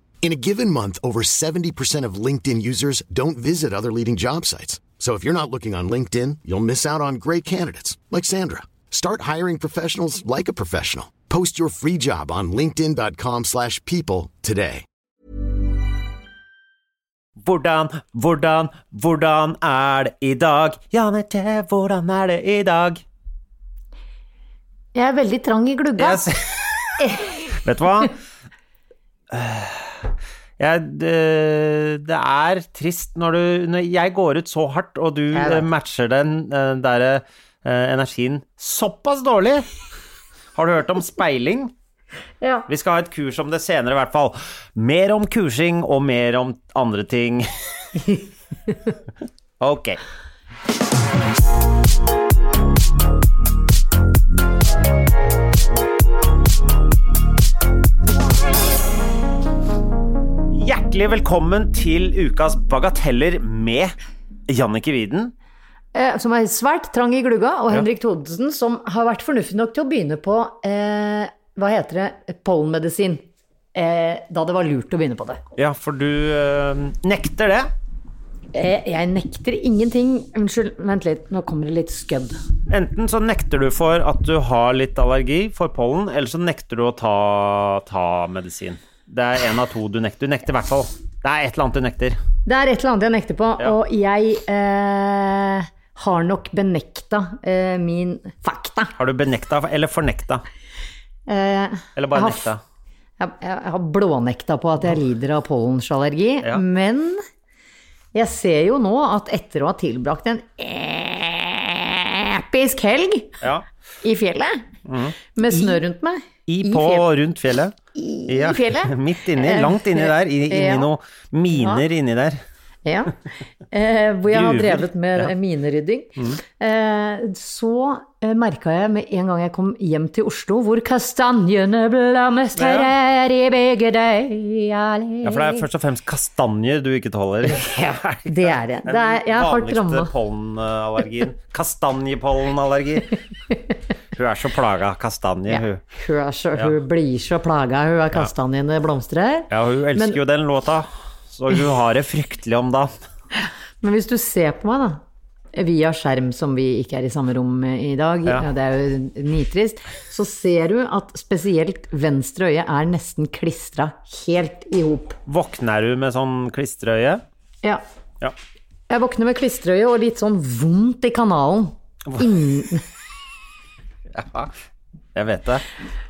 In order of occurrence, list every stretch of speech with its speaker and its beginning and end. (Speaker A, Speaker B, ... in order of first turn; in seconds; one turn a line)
Speaker A: 0.2-14.8
Speaker B: 17.4-23.0
Speaker C: 24.9-26.3
Speaker B: 26.0-28.1
Speaker C: 27.0-27.3
Speaker B: 29.3-39.7
Speaker C: 35.3-35.7
Speaker B: 40.5-41.7
Speaker C: 42.4-42.7
Speaker B: 42.7-47.5
Speaker B: 49.6-50.0
Speaker B: 60.5-63.9
Speaker B: 64.5-65.3
Speaker C: 65.9-73.2
Speaker C: 73.8-75.4
Speaker B: 75.6-77.7
Speaker C: 78.5-82.4
Speaker B: 82.7-92.2
Speaker C: 92.5-98.9
Speaker B: 99.0-100.4
Speaker C: 101.3-102.5
Speaker B: 102.0-102.6
Speaker C: 103.2-107.2
Speaker C: 108.1-113.4
Speaker C: 114.0-114.7
Speaker B: 114.9-115.8
Speaker C: 115.3-117.0
Speaker B: 116.5-117.8
Speaker C: 117.9-120.9
Speaker B: 118.3-122.4
Speaker C: 122.8-135.7
Speaker B: 124.3-125.3
Speaker B: 132.6-132.9
Speaker B: 135.2-143.2
Speaker C: 137.5-140.1
Speaker B: 144.2-145.8
Speaker C: 145.5-150.2
Speaker B: 149.5-152.9
Speaker C: 153.8-155.0
Speaker C: 155.5-165.2
Speaker B: 165.3-167.2
Speaker C: 168.9-172.8
Speaker B: 174.1-174.6
Speaker B: 175.2-175.7